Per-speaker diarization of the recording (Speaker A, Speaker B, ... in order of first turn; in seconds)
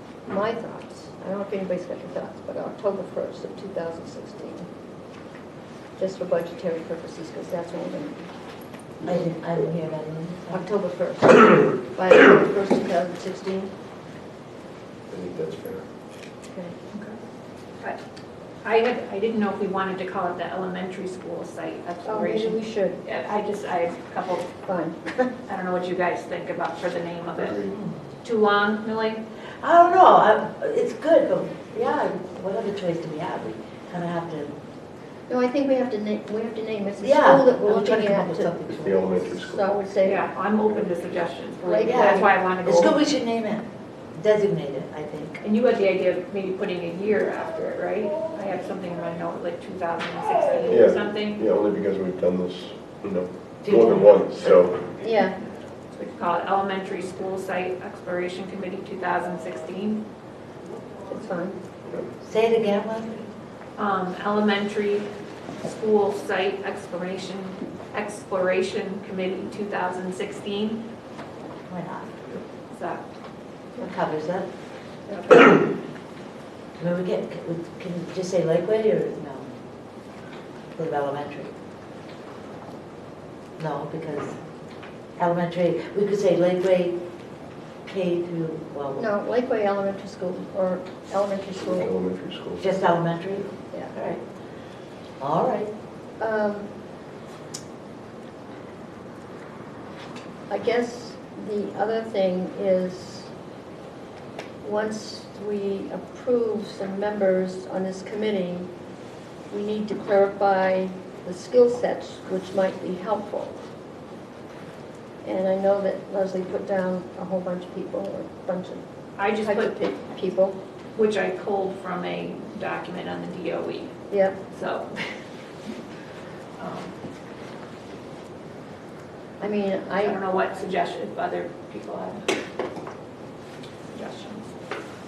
Speaker A: 0.3-4.7, 6.0-8.3, 10.5-13.7, 16.5-16.8, 22.0-23.0, 24.6-25.3, 35.3-38.5, 39.3-40.3, 41.6-42.3, 54.9-55.4, 61.1-61.6, 89.0-91.9, 96.2-96.7, 100.5-103.3, 104.6-108.7, 109.5-113.6, 115.2-118.8, 119.4-120.6, 124.1-124.4, 129.4-130.2
Speaker B: 9.0-10.7, 29.6-34.6, 37.0-39.2, 41.9-45.4, 53.6-54.5, 62.2-63.3, 71.7-72.3, 73.8-74.5, 76.8-79.5, 80.7-81.5, 83.6-84.4, 85.2-87.0, 87.8-89.1, 92.5-94.2, 95.2-95.7
Speaker C: 15.1-15.8, 27.4-27.7, 38.7-39.7, 50.7-55.0, 91.6-92.7
Speaker D: 18.6-24.5, 25.5-27.7, 28.2-29.2, 40.0-43.0, 45.4-51.4, 55.9-60.0, 63.8-65.1, 65.6-70.8, 72.7-73.0, 75.1-75.6, 119.2-119.7, 120.9-123.9, 124.5-125.0, 126.6-126.9, 130.0-132.3, 133.9-134.4